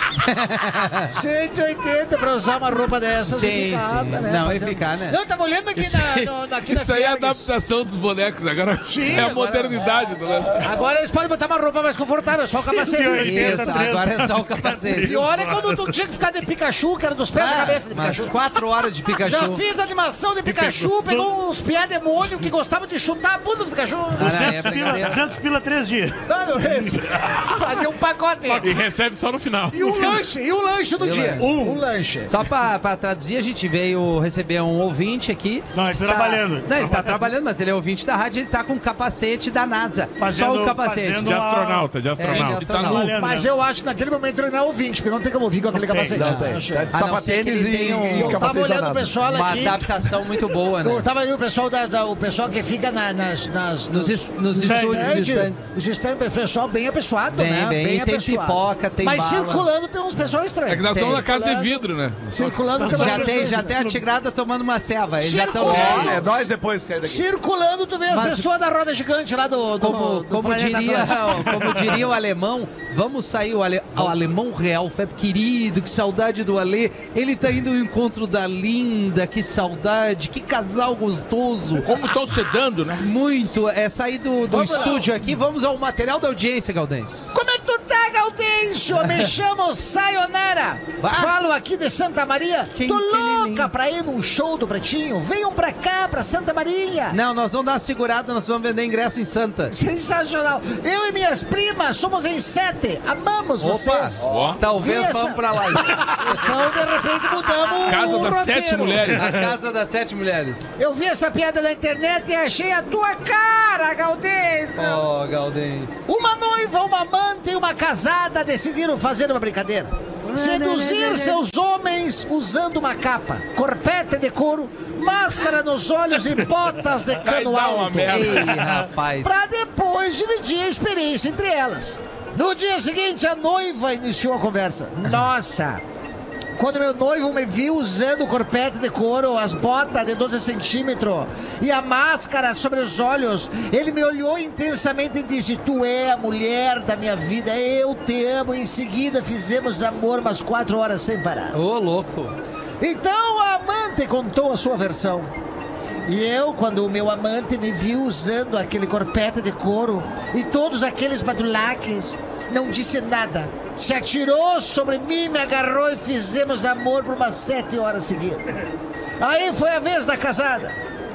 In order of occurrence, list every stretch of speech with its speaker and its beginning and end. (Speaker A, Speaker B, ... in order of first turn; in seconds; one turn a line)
Speaker A: 0.2-1.1
Speaker B: 1.1-7.5
Speaker A: 3.3-5.2
Speaker C: 5.8-10.7
Speaker B: 8.9-9.9
Speaker B: 10.6-13.8
Speaker D: 12.5-15.3
Speaker A: 13.1-15.2
Speaker B: 15.0-18.4
Speaker A: 17.3-19.6
Speaker B: 19.1-24.6
Speaker E: 20.5-20.8
Speaker A: 24.1-25.2
Speaker D: 24.2-26.2
Speaker B: 26.3-28.9
Speaker E: 28.5-30.2
Speaker B: 29.7-32.3
Speaker A: 31.0-31.5
Speaker D: 31.4-31.8
Speaker A: 32.3-41.4
Speaker D: 35.7-37.3
Speaker D: 40.2-41.9
Speaker E: 41.2-42.9
Speaker A: 42.2-43.1
Speaker C: 42.3-43.1
Speaker D: 42.8-43.5
Speaker B: 43.2-46.9
Speaker D: 45.8-46.2
Speaker F: 46.1-49.2
Speaker A: 46.1-48.5
Speaker B: 48.1-50.1
Speaker A: 49.2-51.0
Speaker B: 50.8-61.7
Speaker A: 53.9-55.7
Speaker D: 54.5-55.4
Speaker A: 57.3-59.7
Speaker C: 60.6-62.7
Speaker A: 60.9-61.2
Speaker B: 62.3-63.7
Speaker D: 62.7-64.0
Speaker A: 62.9-66.2
Speaker B: 65.2-66.5
Speaker F: 65.5-67.2
Speaker B: 67.0-72.0
Speaker A: 68.1-68.5
Speaker A: 69.8-81.9
Speaker C: 81.8-83.1
Speaker A: 83.0-87.2
Speaker B: 84.5-85.1
Speaker B: 87.3-97.2
Speaker A: 91.0-91.3
Speaker A: 92.7-93.7
Speaker A: 97.1-99.7
Speaker B: 99.7-109.2
Speaker A: 103.6-106.3
Speaker C: 104.2-104.6
Speaker C: 107.8-109.5
Speaker A: 109.1-110.7
Speaker B: 110.8-115.0
Speaker A: 114.8-116.0
Speaker B: 116.1-128.4
Speaker A: 120.2-121.4
Speaker C: 127.2-128.8
Speaker A: 128.1-129.3
Speaker B: 129.2-135.8
Speaker B: 136.6-151.6
Speaker A: 151.5-152.3
Speaker B: 152.8-155.3
Speaker B: 156.1-168.5
Speaker B: 169.2-170.8